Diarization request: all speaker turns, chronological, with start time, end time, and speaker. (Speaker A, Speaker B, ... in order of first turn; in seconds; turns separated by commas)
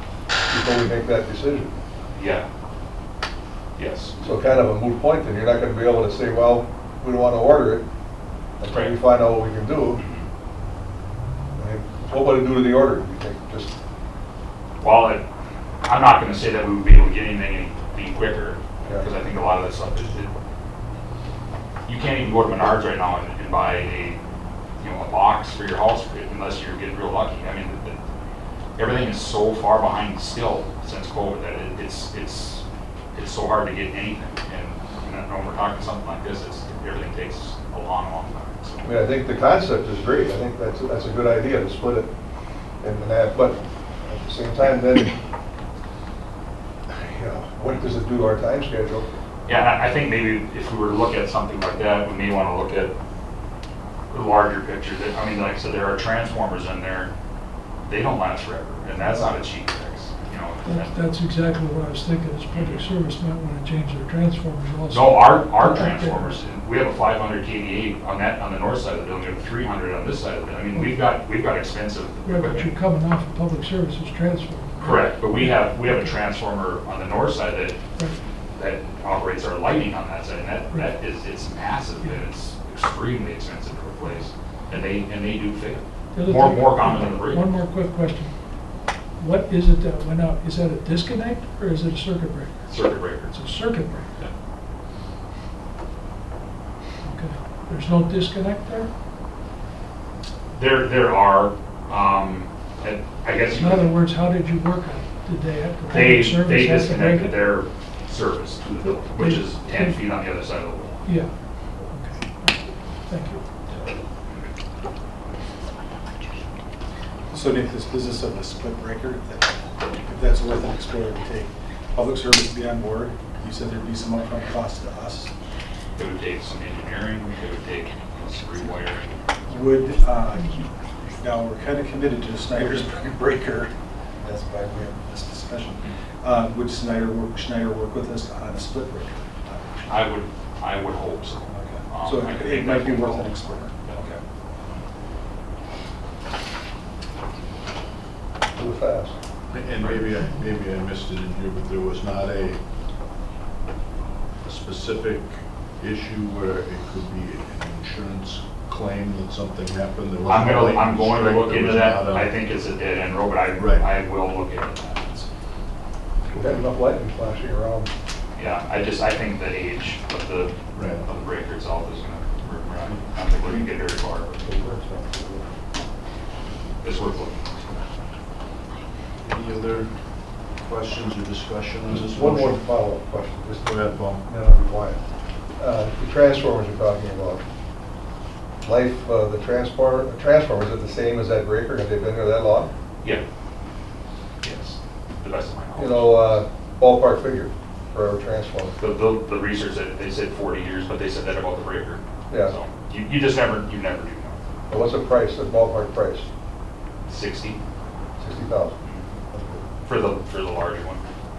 Speaker A: 0.5-1.7, Speaker B: 2.1-2.5, Speaker B: 3.8-4.2, Speaker A: 4.2-7.9, Speaker A: 8.6-10.0, Speaker B: 9.9-10.3, Speaker A: 11.6-13.7, Speaker B: 14.8-15.2, Speaker B: 15.8-20.3, Speaker B: 21.9-24.2, Speaker B: 24.8-28.0, Speaker B: 28.8-32.6, Speaker B: 33.1-38.9, Speaker A: 38.8-42.1, Speaker A: 42.8-45.2, Speaker A: 46.9-49.2, Speaker B: 49.5-53.0, Speaker B: 54.1-57.1, Speaker B: 57.8-61.0, Speaker C: 60.6-66.3, Speaker B: 62.5-62.9, Speaker B: 64.9-72.7, Speaker C: 72.2-76.1, Speaker B: 74.8-77.8, Speaker B: 78.6-87.5, Speaker C: 86.2-88.3, Speaker C: 89.2-94.1, Speaker B: 92.7-93.3, Speaker C: 97.1-98.9, Speaker B: 100.5-103.9, Speaker C: 103.5-107.5, Speaker B: 105.9-111.0, Speaker C: 108.8-110.0, Speaker C: 111.0-111.3, Speaker C: 111.9-113.5, Speaker D: 117.3-125.3, Speaker B: 126.0-129.2, Speaker D: 129.5-140.1, Speaker B: 139.9-143.3, Speaker D: 141.5-144.2, Speaker A: 148.6-149.2, Speaker E: 149.5-152.6, Speaker B: 149.8-150.1, Speaker E: 154.4-162.3, Speaker B: 160.2-165.3, Speaker E: 163.6-163.9, Speaker A: 166.3-167.9, Speaker E: 166.3-166.6, Speaker B: 168.4-174.5, Speaker E: 170.8-171.1, Speaker A: 174.4-175.5, Speaker B: 176.8-177.4, Speaker E: 179.2-179.9, Speaker E: 180.6-182.6, Speaker A: 181.9-185.0, Speaker E: 183.6-184.2, Speaker A: 185.6-187.4, Speaker A: 188.6-192.7, Speaker B: 194.4-196.4, Speaker A: 195.8-198.8, Speaker B: 198.8-204.4, Speaker A: 204.7-206.3, Speaker B: 207.1-207.6, Speaker A: 208.2-208.8, Speaker B: 208.8-209.1, Speaker A: 209.3-209.7, Speaker B: 209.8-211.0